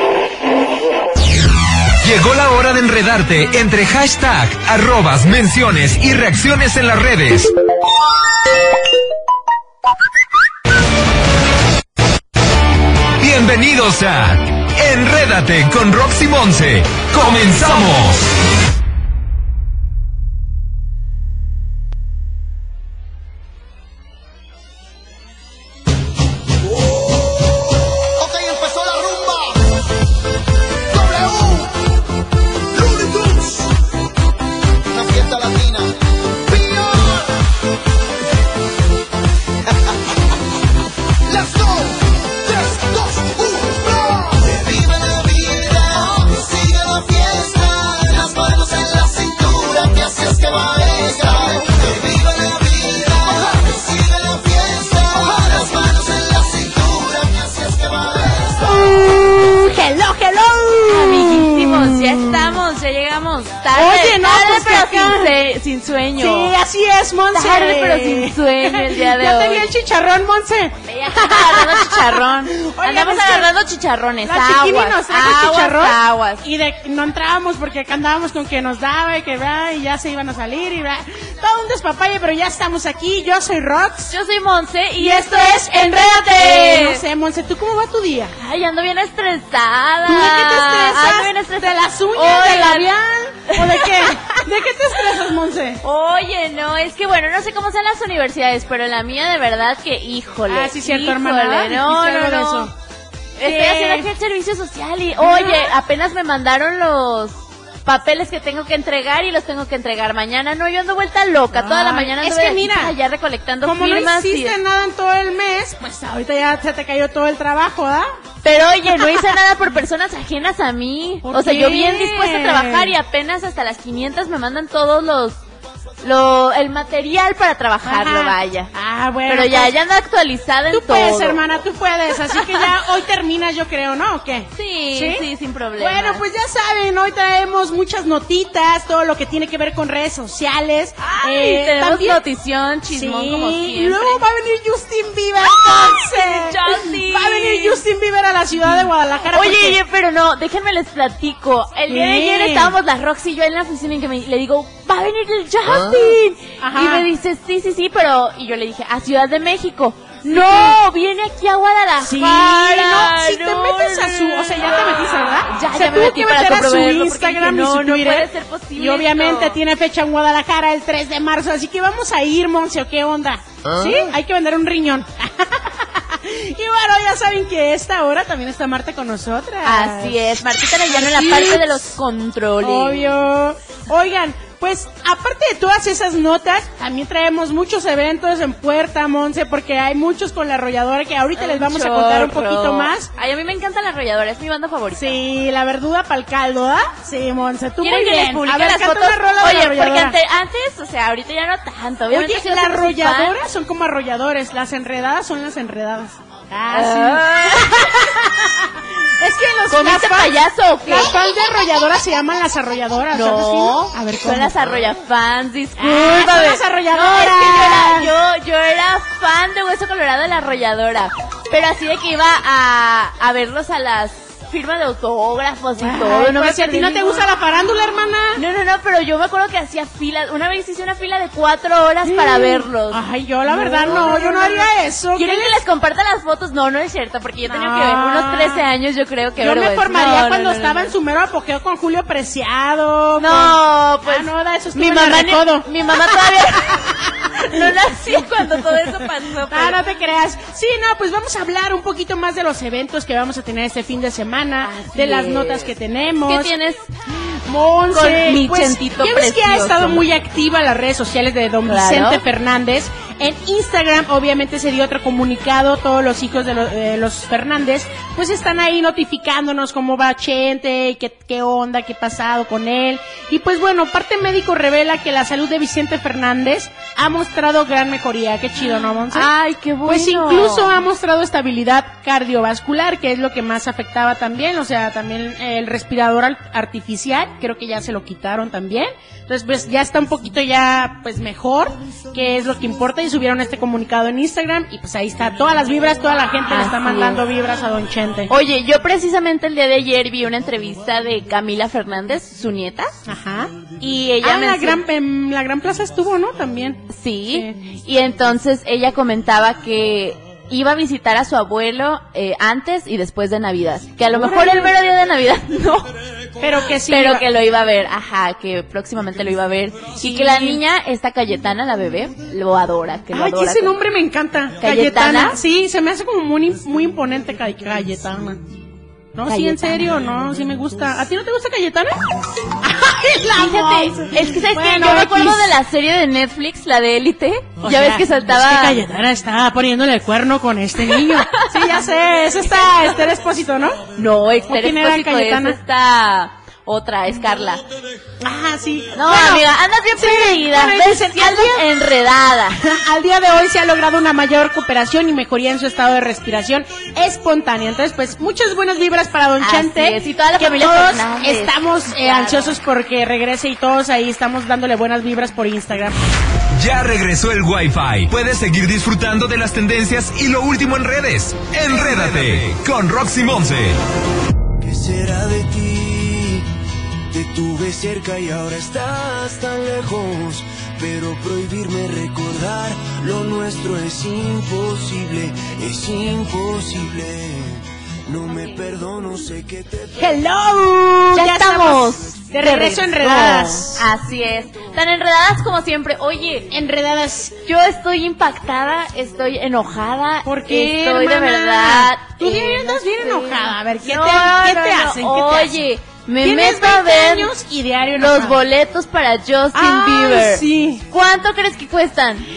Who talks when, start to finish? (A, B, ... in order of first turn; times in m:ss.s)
0:02.0-0:07.5 A
0:13.2-0:18.3 A
0:28.2-0:29.7 B
0:30.9-0:31.8 B
0:32.8-0:33.7 B
0:34.9-0:36.0 B
0:36.5-0:37.4 B
0:41.3-0:58.5 B
0:58.6-1:02.6 C
1:00.9-1:06.6 D
1:03.7-1:05.4 C
1:06.2-1:13.5 C
1:07.3-1:09.7 D
1:10.8-1:16.4 D
1:14.2-1:24.1 C
1:24.1-1:27.0 D
1:25.0-1:28.3 C
1:28.4-1:32.9 D
1:30.0-1:35.8 C
1:33.5-1:34.0 D
1:35.8-1:42.7 D
1:40.5-1:42.7 C
1:43.4-1:54.6 D
1:43.4-1:44.1 C
1:45.2-1:45.7 C
1:51.5-1:53.0 C
1:53.6-1:58.1 C
1:58.4-2:05.4 D
1:58.9-1:59.2 C
2:01.2-2:03.0 C
2:06.0-2:08.7 D
2:07.8-2:09.8 C
2:09.3-2:11.4 D
2:10.7-2:22.2 C
2:12.3-2:12.6 D
2:14.6-2:16.2 D
2:21.0-2:24.2 D
2:22.9-2:29.8 C
2:25.8-2:27.8 D
2:28.6-2:49.6 D
2:31.9-2:32.8 C
2:36.6-2:37.1 C
2:40.3-2:40.8 C
2:42.0-3:00.2 C
2:59.6-3:03.2 D
3:00.9-3:01.9 C
3:02.6-3:13.1 C
3:11.4-3:15.2 D
3:14.9-3:20.2 C
3:17.8-3:23.4 D
3:22.1-3:34.6 C
3:26.7-3:28.0 D
3:29.7-3:31.2 D
3:33.1-3:47.2 D
3:35.8-3:38.1 C
3:45.8-3:48.4 C
3:48.4-4:00.9 D
3:52.0-3:55.6 C
3:57.4-3:58.7 C
3:59.4-4:09.0 C
4:03.2-4:09.8 D
4:09.5-4:16.5 C
4:14.6-4:15.7 D
4:16.2-4:16.8 D
4:17.4-4:39.3 C
4:17.9-4:20.0 D
4:21.7-4:22.2 D
4:39.1-4:40.8 D
4:39.8-4:58.3 C
4:56.5-4:57.2 D
4:58.3-5:02.9 D
5:03.1-5:03.5 C
5:03.8-5:04.8 D
5:04.2-5:07.5 C
5:06.9-5:15.9 D
5:14.1-5:14.7 C
5:16.4-5:17.3 C
5:16.9-5:23.8 D
5:20.0-5:20.6 C
5:23.1-5:28.4 C
5:24.6-5:25.4 D
5:29.2-5:31.9 C
5:29.3-5:29.9 D
5:32.6-5:35.6 C
5:33.4-5:38.8 D
5:37.6-5:43.8 C
5:40.8-5:41.8 D
5:42.5-5:43.0 D
5:44.0-5:47.6 D
5:44.5-5:45.6 C
5:48.2-5:51.6 C
5:48.9-5:52.6 D
5:52.6-6:06.0 C
5:59.4-6:02.6 D
6:06.6-6:13.8 A
6:14.6-6:16.5 E
6:17.1-6:30.1 E
6:30.0-6:33.9 C
6:31.1-6:36.5 D
6:36.5-6:37.4 C
6:37.5-6:47.3 D
6:40.2-6:45.6 C
6:46.2-6:48.4 C
6:48.0-6:52.3 D
6:49.5-6:50.8 C